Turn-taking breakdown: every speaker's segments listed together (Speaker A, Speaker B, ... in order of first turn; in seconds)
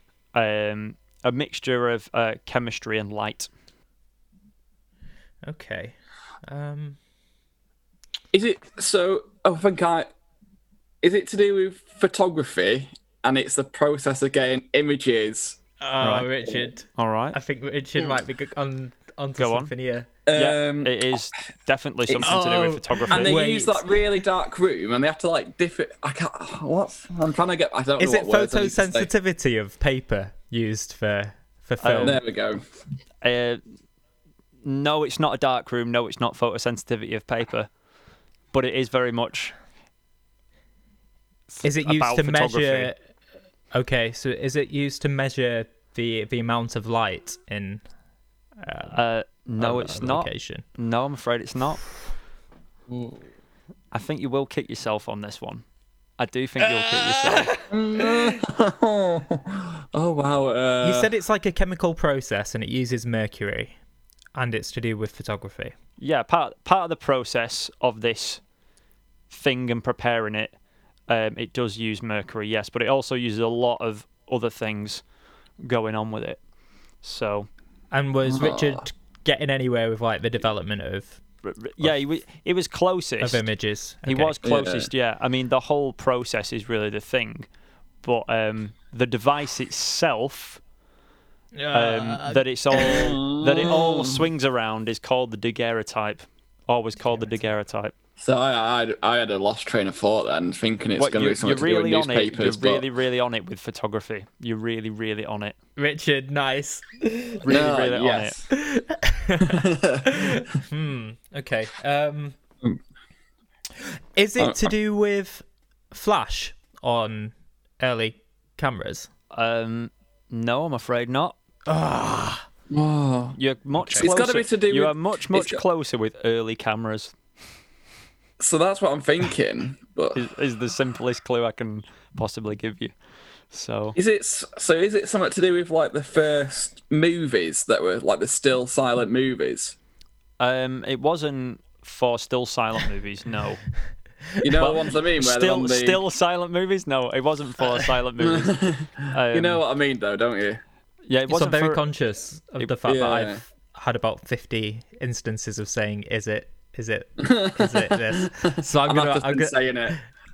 Speaker A: 0.3-3.5, 16.0-16.3, 16.9-17.4, 19.4-19.7, 20.3-23.3, 31.8-32.2, 33.2-33.6, 34.6-37.7, 38.5-39.5, 41.5-42.9, 48.9-51.8, 53.9-55.6, 56.2-57.5, 66.0-68.4, 69.3-70.5, 71.1-75.0, 75.6-76.4, 77.0-77.5, 81.4-83.4, 84.0-87.5, 88.0-90.6, 91.7-97.9, 101.0-105.5, 107.4-108.4, 119.3-121.3, 123.3-127.1, 130.1-132.9, 133.5-133.9, 140.4-143.6, 144.5-149.6, 151.1-151.8
Speaker B: 5.4-5.9, 6.5-7.0, 15.8-20.1, 22.2-24.2, 28.0-32.2, 41.6-43.0, 43.7-47.8, 48.6-49.0, 49.6-50.6, 56.6-58.4, 60.8-63.8, 64.3-65.7, 77.9-81.2, 83.2-84.4, 91.5-93.2, 105.8-107.5, 108.5-112.4, 114.2-119.1, 121.7-122.5, 123.8-124.1, 151.3-160.0
Speaker C: 8.3-10.1, 11.0-15.6, 20.2-21.1, 23.1-29.1, 32.0-32.6, 52.9-53.2, 57.7-61.1, 78.2-78.8, 84.4-84.9, 92.8-94.2, 98.2-102.8, 107.5-108.4, 109.4-110.1, 114.4-114.7, 122.7-123.4, 124.0-125.6, 128.4-130.3, 133.9-139.8, 144.4-146.0, 148.2-150.6, 152.8-153.4, 157.2-160.0